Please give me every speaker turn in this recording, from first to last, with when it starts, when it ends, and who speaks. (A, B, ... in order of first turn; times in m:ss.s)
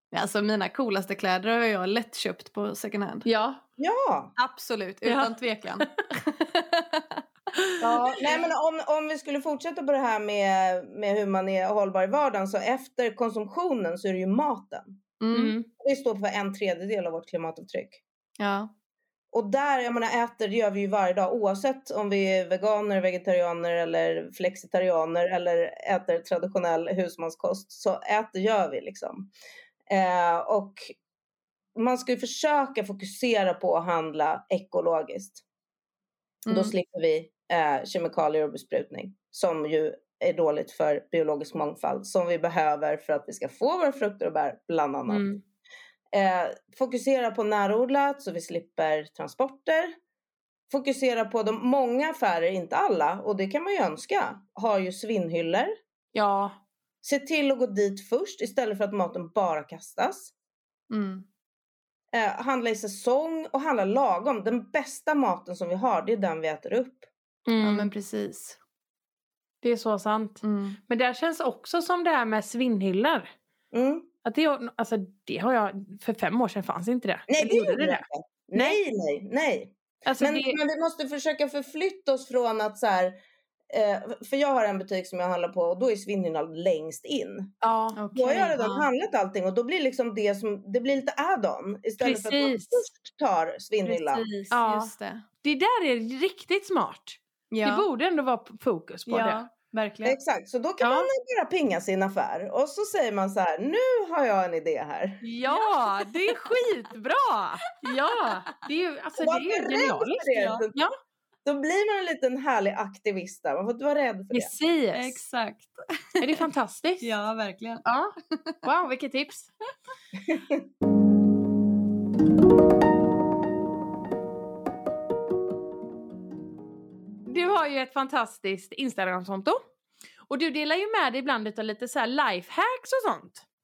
0:00.1-0:03.2 A
0:03.2-0:03.6 B
0:03.8-0:04.4 C
0:04.4-0:07.2 A
0:05.0-0:06.0 B
0:07.8-0:08.2 B
0:07.8-0:15.0 C
0:15.2-0:15.6 A
0:15.3-0:15.7 B
0:15.8-0:18.0 C
0:18.4-0:18.7 A
0:19.3-0:29.3 C
0:29.9-0:30.9 C
0:31.8-0:35.4 C
0:36.5-0:36.7 A
0:36.5-0:45.3 C
0:45.1-0:45.4 B
0:46.1-0:49.9 C
0:50.7-0:55.7 C
0:56.1-0:56.6 B
0:57.0-1:00.3 C
1:00.9-1:01.2 A
1:02.1-1:07.1 C
1:07.5-1:07.9 B
1:07.6-1:08.6 A
1:09.6-1:13.3 B
1:10.4-1:10.8 A
1:13.7-1:14.1 C
1:14.2-1:18.0 B
1:17.3-1:23.2 C
1:20.0-1:20.6 B
1:23.7-1:27.5 C
1:27.6-1:28.0 B
1:28.0-1:28.9 A
1:28.1-1:34.3 C
1:32.0-1:32.9 B
1:33.8-1:35.2 A
1:34.5-1:34.9 B
1:35.4-1:39.4 B
1:37.5-1:37.8 A
1:39.1-1:40.2 A
1:40.0-1:45.2 C
1:40.8-1:41.1 B
1:45.2-1:50.9 B
1:45.5-1:46.4 A
1:47.9-1:48.3 A
1:49.2-1:50.8 C
1:50.3-1:50.6 A
1:51.4-1:54.6 C
1:54.3-1:55.2 B
1:54.9-1:56.4 A
1:56.2-1:57.1 B
1:57.0-1:57.8 A
1:57.8-1:59.5 B
2:00.3-2:00.6 C
2:07.3-2:09.6 B
2:10.3-2:13.4 B